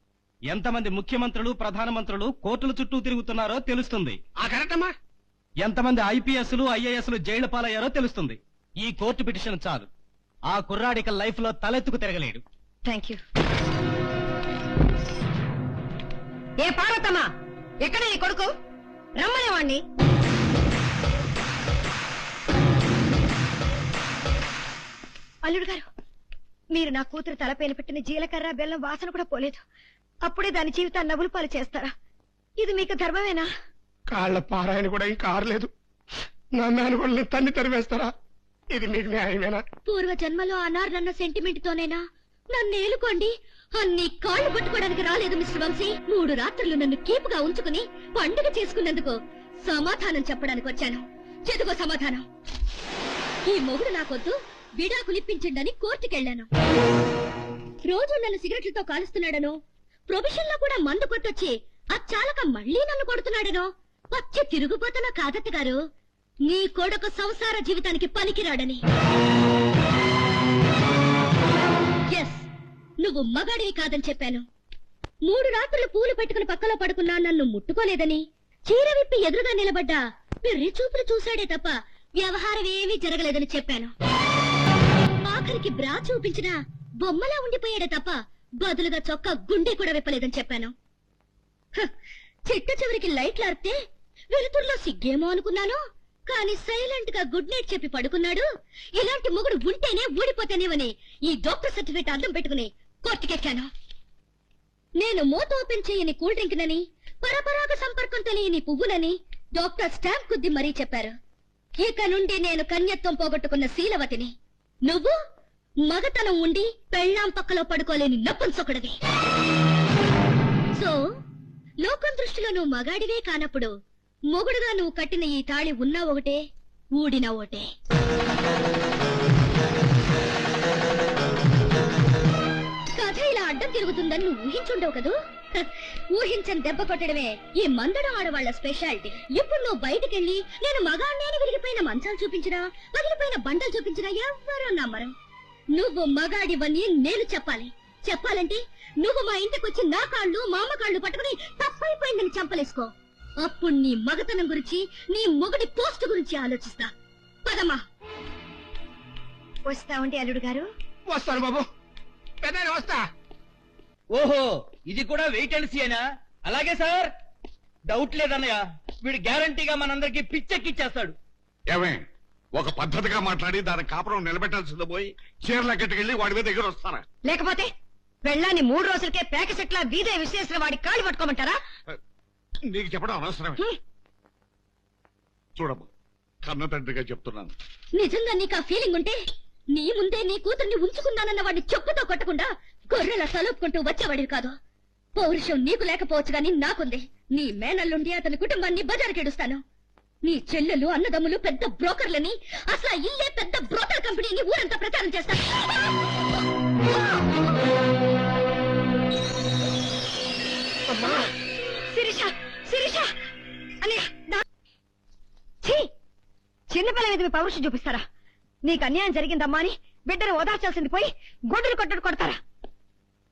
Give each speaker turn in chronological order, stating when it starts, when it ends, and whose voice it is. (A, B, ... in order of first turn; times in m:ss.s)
0:00.5-0:04.2 A
0:04.4-0:04.9 B
0:05.7-0:07.1 C
0:05.8-0:08.4 A
0:09.0-0:09.9 A
0:10.5-0:11.3 C
0:10.7-0:12.4 A
0:11.9-0:12.3 C
0:12.9-0:13.2 D
0:16.6-0:17.3 D
0:17.8-0:18.5 D
0:19.2-0:19.8 D
0:25.4-0:25.9 D
0:26.7-0:29.6 D
0:30.3-0:31.9 D
0:32.6-0:33.5 D
0:34.1-0:35.7 B
0:36.6-0:38.1 B
0:38.7-0:39.6 B
0:39.9-0:42.0 E
0:42.5-0:52.2 E
0:53.5-0:56.5 E
0:57.8-0:59.5 E
1:00.1-1:05.8 E
1:06.5-1:08.8 E
1:12.1-1:12.5 E
1:13.0-1:14.4 E
1:15.3-1:23.9 E
1:25.2-1:30.7 E
1:32.5-1:33.8 E
1:34.3-1:38.4 E
1:39.0-1:43.7 E
1:45.0-1:51.1 E
1:51.8-1:54.3 E
1:54.9-1:55.1 E
1:55.9-1:59.0 E
2:01.8-2:03.7 E
2:04.3-2:06.4 E
2:07.0-2:07.7 E
2:12.9-2:25.1 E
2:25.8-2:36.9 E
2:37.5-2:37.8 E
2:39.7-2:40.6 D
2:41.1-2:41.7 B
2:42.4-2:43.0 B
2:44.1-2:47.1 C
2:47.9-2:51.2 C
2:51.7-2:52.0 F
2:52.6-2:57.0 F
2:57.3-2:57.7 D
2:58.2-3:01.6 D
3:02.7-3:03.6 F
3:05.6-3:05.9 F
3:06.4-3:07.5 F
3:08.0-3:09.2 E
3:09.7-3:14.5 E
3:15.2-3:19.6 E
3:20.2-3:25.5 E
3:31.9-3:33.1 D
3:33.8-3:34.4 D
3:36.7-3:38.0 D
3:38.6-3:42.4 D